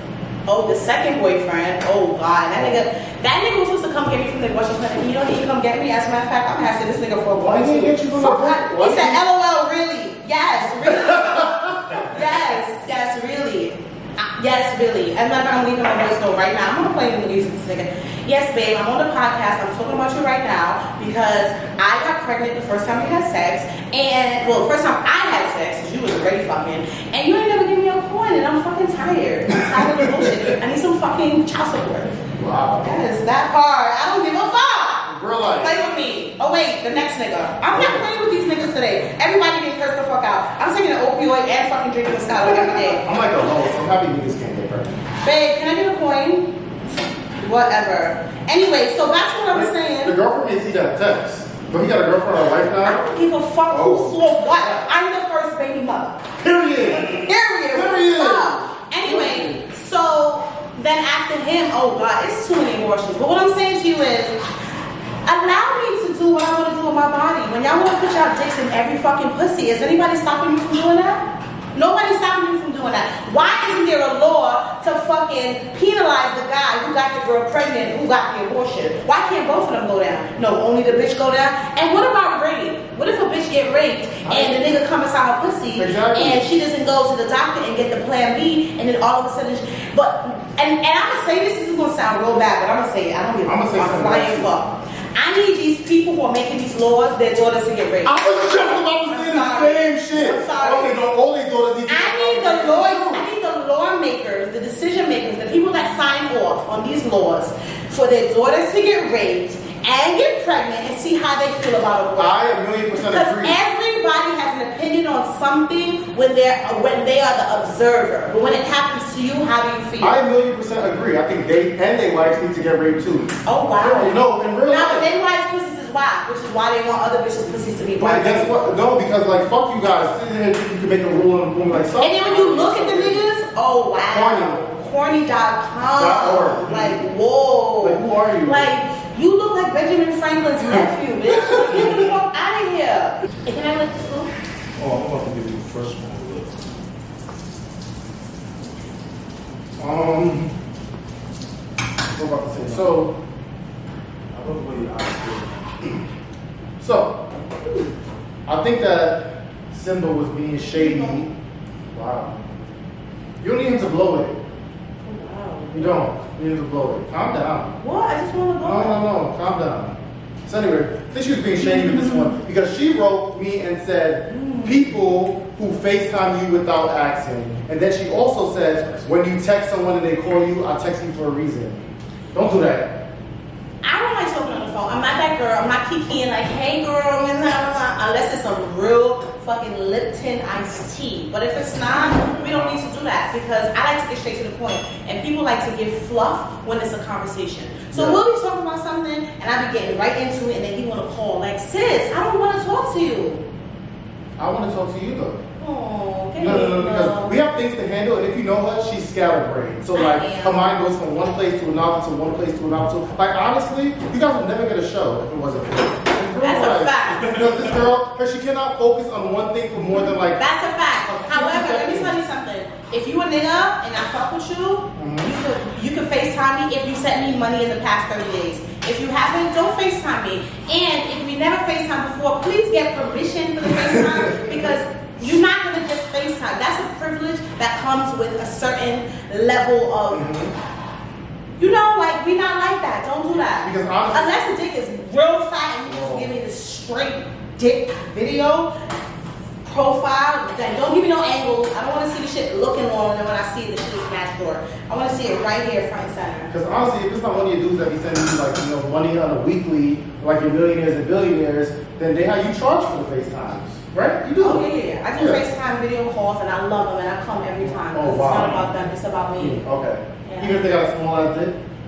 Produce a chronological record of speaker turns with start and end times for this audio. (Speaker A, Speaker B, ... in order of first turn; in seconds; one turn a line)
Speaker A: 0.5-32.2
Speaker B: 2.5-2.8
Speaker B: 7.4-9.2
Speaker B: 10.8-12.0
Speaker B: 29.6-30.4
Speaker B: 32.4-33.0
Speaker A: 32.8-43.0
Speaker B: 35.0-35.8
Speaker B: 37.7-38.1
Speaker B: 42.4-45.0
Speaker A: 45.2-46.5
Speaker A: 47.4-50.1
Speaker B: 49.5-53.0
Speaker A: 52.8-56.2
Speaker B: 53.7-54.9
Speaker B: 56.4-59.6
Speaker A: 56.9-64.4
Speaker A: 65.2-98.5
Speaker B: 84.2-84.7
Speaker B: 85.8-86.4
Speaker B: 93.4-94.5
Speaker B: 98.0-103.3
Speaker A: 99.0-100.9
Speaker A: 101.9-112.4
Speaker B: 112.2-113.6
Speaker A: 113.0-120.2
Speaker B: 120.0-125.1
Speaker A: 123.4-128.5
Speaker B: 128.0-133.2
Speaker A: 132.0-144.3
Speaker B: 134.1-134.6
Speaker B: 135.9-137.0
Speaker B: 137.8-138.7
Speaker B: 141.3-142.0
Speaker C: 144.8-146.6
Speaker B: 149.8-150.5
Speaker B: 152.1-153.1
Speaker C: 154.3-155.6
Speaker B: 156.8-157.2
Speaker B: 158.4-161.3
Speaker A: 160.7-161.2
Speaker B: 161.9-162.4
Speaker B: 163.4-164.3
Speaker A: 165.0-166.1
Speaker B: 165.7-167.8
Speaker A: 167.8-169.0
Speaker B: 168.6-182.9
Speaker A: 171.6-172.3
Speaker A: 174.3-174.9
Speaker A: 183.8-203.4
Speaker B: 191.9-192.7
Speaker B: 197.9-198.2
Speaker B: 204.4-205.4
Speaker A: 205.6-207.3
Speaker B: 206.4-220.4
Speaker A: 209.9-210.6
Speaker A: 216.4-217.3
Speaker A: 220.3-240.3
Speaker B: 221.1-222.2
Speaker B: 224.9-225.3
Speaker B: 233.6-234.7
Speaker B: 240.1-240.5
Speaker A: 241.6-248.7
Speaker B: 243.6-244.4
Speaker B: 245.9-246.3
Speaker A: 249.6-256.5
Speaker B: 256.5-265.4
Speaker A: 264.4-269.6
Speaker B: 267.6-268.6
Speaker B: 269.4-271.5
Speaker A: 270.2-270.6